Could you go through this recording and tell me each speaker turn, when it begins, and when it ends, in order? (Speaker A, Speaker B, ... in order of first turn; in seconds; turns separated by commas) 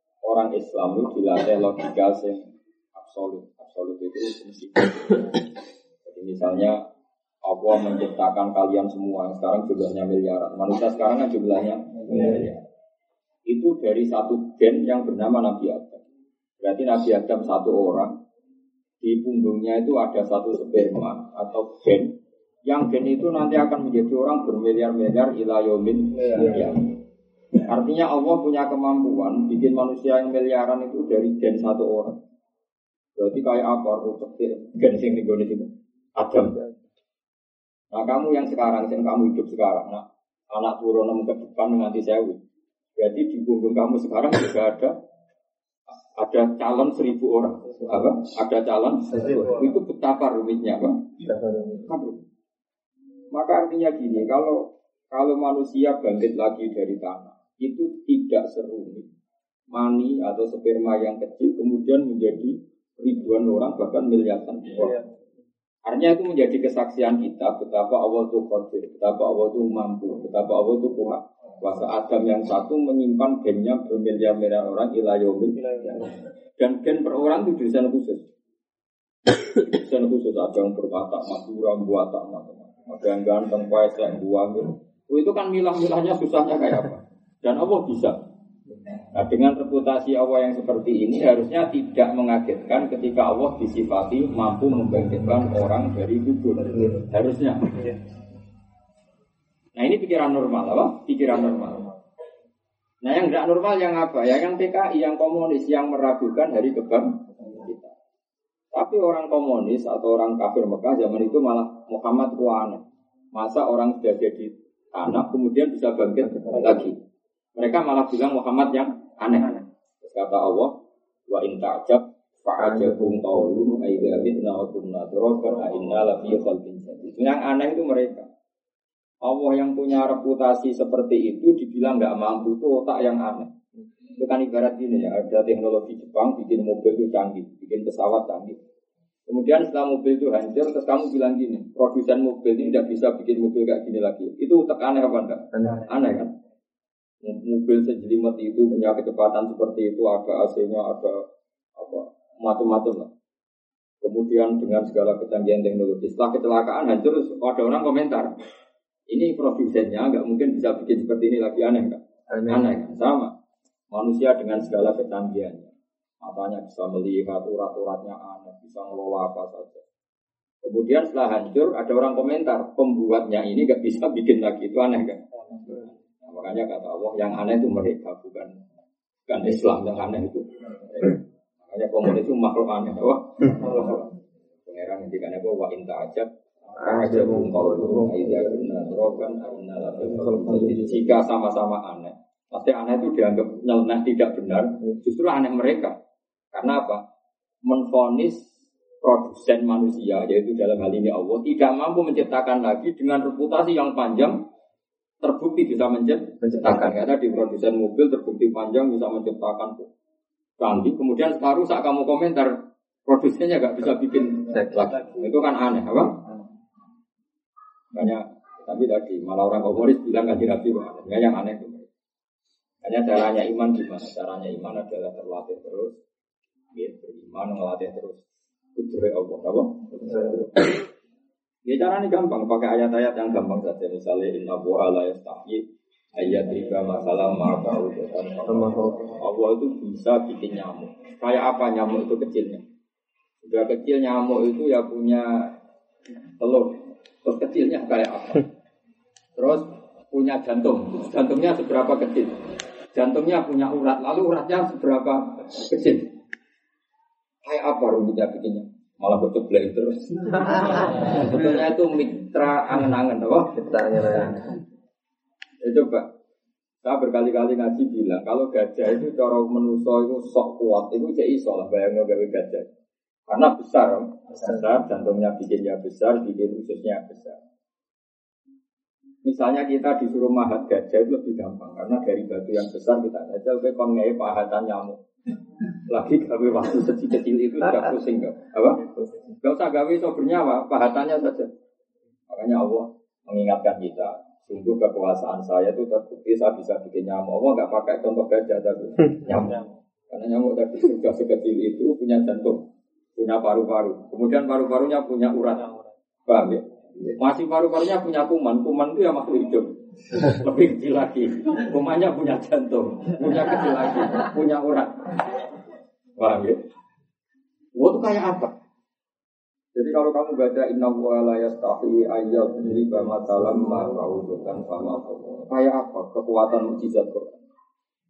Speaker A: 0.2-5.4, Speaker A: 6.0-6.8, Speaker A: 7.4-12.6, Speaker A: 13.5-16.0, Speaker A: 16.6-18.1, Speaker A: 19.0-22.1, Speaker A: 22.6-26.9, Speaker A: 27.6-32.2, Speaker A: 33.2-36.6, Speaker B: 36.4-36.7, Speaker A: 37.9-42.4, Speaker A: 43.0-44.9, Speaker A: 45.9-51.2, Speaker B: 49.1-49.6, Speaker B: 51.2-51.9, Speaker A: 51.9-52.2, Speaker A: 53.3-59.1, Speaker A: 59.7-65.0, Speaker A: 65.8-78.3, Speaker B: 75.8-76.0, Speaker A: 79.5-88.2, Speaker A: 89.1-97.9, Speaker B: 96.7-97.0, Speaker A: 99.7-101.9, Speaker A: 103.0-107.9, Speaker A: 108.7-112.8, Speaker A: 113.3-117.0, Speaker B: 116.2-116.8, Speaker A: 117.5-120.7, Speaker A: 121.3-128.3, Speaker B: 122.6-124.0, Speaker A: 129.2-133.5, Speaker A: 134.2-138.6, Speaker A: 139.3-146.3, Speaker B: 145.5-145.9, Speaker A: 147.2-153.1, Speaker A: 154.0-158.3, Speaker A: 159.1-163.3, Speaker B: 162.3-162.8, Speaker A: 163.9-169.8, Speaker A: 170.6-178.5, Speaker A: 179.3-196.0, Speaker B: 186.8-188.6, Speaker B: 190.0-191.0, Speaker A: 196.5-197.0, Speaker A: 197.6-204.4, Speaker A: 205.2-209.9, Speaker B: 206.4-207.0, Speaker A: 210.6-216.3, Speaker B: 214.5-215.1, Speaker A: 217.9-221.9, Speaker A: 222.8-226.0, Speaker A: 226.7-228.2, Speaker A: 228.7-230.5, Speaker B: 229.9-230.5, Speaker A: 231.7-235.6, Speaker A: 236.1-242.6, Speaker B: 238.4-239.1, Speaker A: 243.4-245.5, Speaker A: 246.4-248.5, Speaker A: 249.4-252.3, Speaker A: 252.9-256.1, Speaker A: 257.4-263.6, Speaker B: 263.5-264.5, Speaker A: 265.6-266.1, Speaker A: 266.8-272.7, Speaker A: 273.3-277.4, Speaker A: 279.2-285.0, Speaker A: 285.7-288.9, Speaker B: 288.8-289.3, Speaker A: 289.4-291.5, Speaker A: 292.3-315.4, Speaker A: 316.1-316.6, Speaker A: 317.7-318.5, Speaker A: 319.7-327.4